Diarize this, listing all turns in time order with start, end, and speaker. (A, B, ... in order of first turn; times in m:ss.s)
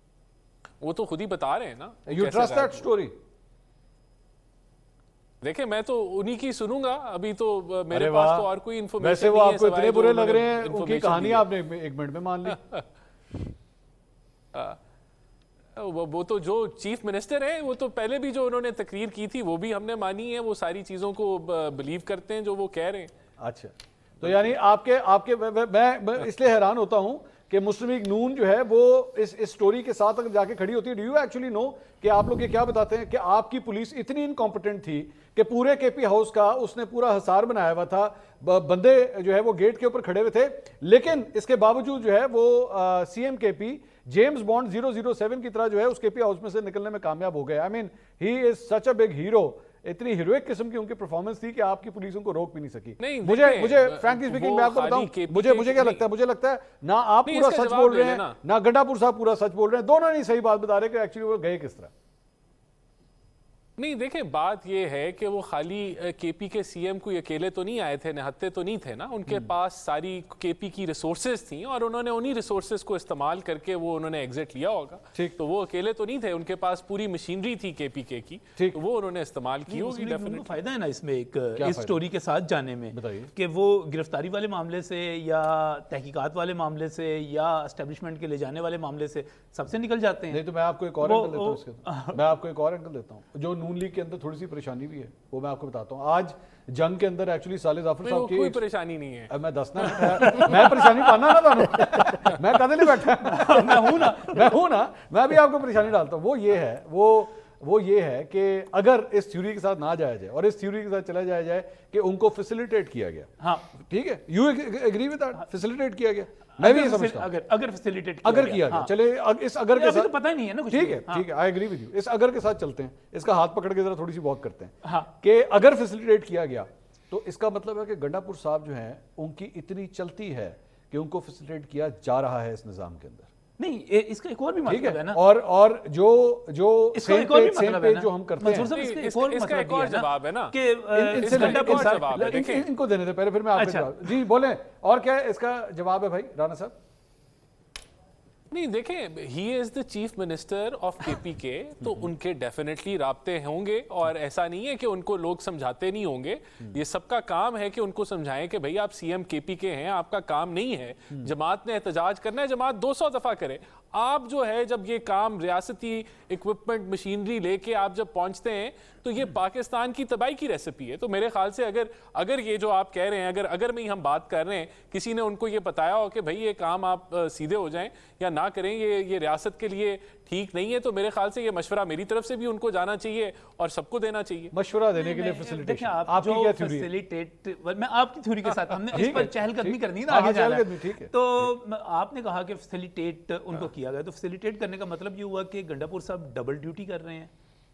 0:00.8-0:02.9 A
0:02.1-0:03.2 B
0:05.4-0:11.5 A
0:07.9-0:08.5 B
0:09.0-0:12.6 B
0:12.5-0:12.8 A
0:15.8-0:23.1 A
0:23.4-1:01.9 B
0:53.0-0:56.1 A
0:57.3-0:58.4 A
1:03.8-1:20.5 A
1:09.3-1:09.5 B
1:19.7-1:30.4 C
1:21.6-1:22.0 B
1:22.9-1:23.3 B
1:30.3-1:38.6 B
1:31.0-1:32.2 C
1:38.0-1:41.1 A
1:39.3-1:57.3 B
1:41.8-1:42.4 A
1:43.2-1:44.5 C
1:53.4-1:53.7 C
1:56.6-1:58.9 C
1:58.2-2:00.1 B
1:59.7-2:01.3 C
2:00.7-2:13.3 B
2:04.8-2:05.1 C
2:13.6-2:15.2 C
2:14.7-2:18.7 B
2:16.9-2:22.6 C
2:18.5-2:20.6 A
2:21.0-2:26.8 B
2:21.2-2:22.7 A
2:23.5-2:24.3 C
2:28.5-3:04.5 A
2:31.8-2:32.1 B
3:04.5-3:06.9 B
3:04.9-3:17.3 C
3:08.9-3:11.5 B